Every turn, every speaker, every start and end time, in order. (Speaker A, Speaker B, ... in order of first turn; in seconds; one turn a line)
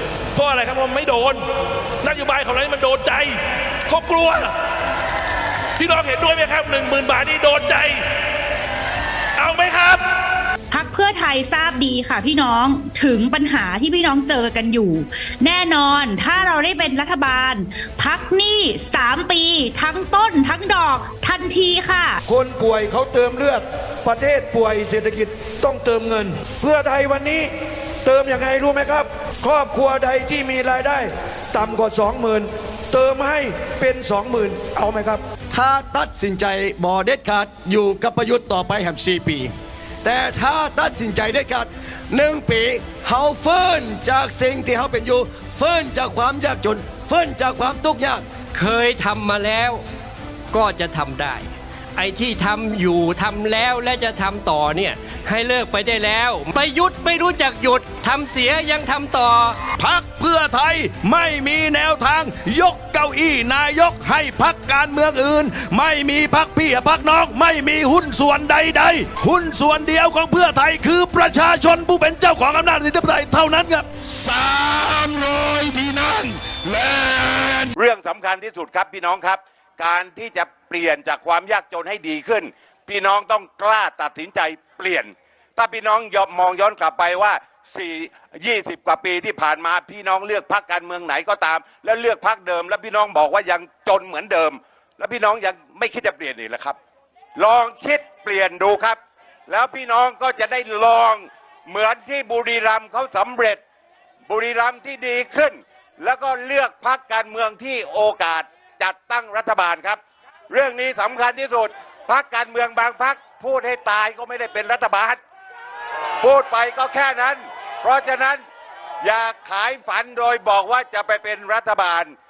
Speaker A: 0.3-1.4
Speaker A: 2.0-4.5
Speaker A: 5.8-8.0
Speaker A: 9.4-10.0
Speaker B: 10.7-22.2
Speaker C: 22.3-27.5
Speaker C: 28.1-35.2
Speaker D: 35.5-48.3
Speaker E: 48.5-49.8
Speaker E: 50.5-59.6
Speaker F: 59.8-77.7
Speaker G: 77.8-96.8
Speaker G: 97.4-103.6
Speaker G: 104.3-115.2
Speaker G: 116.2-118.4
Speaker G: 119.0-122.1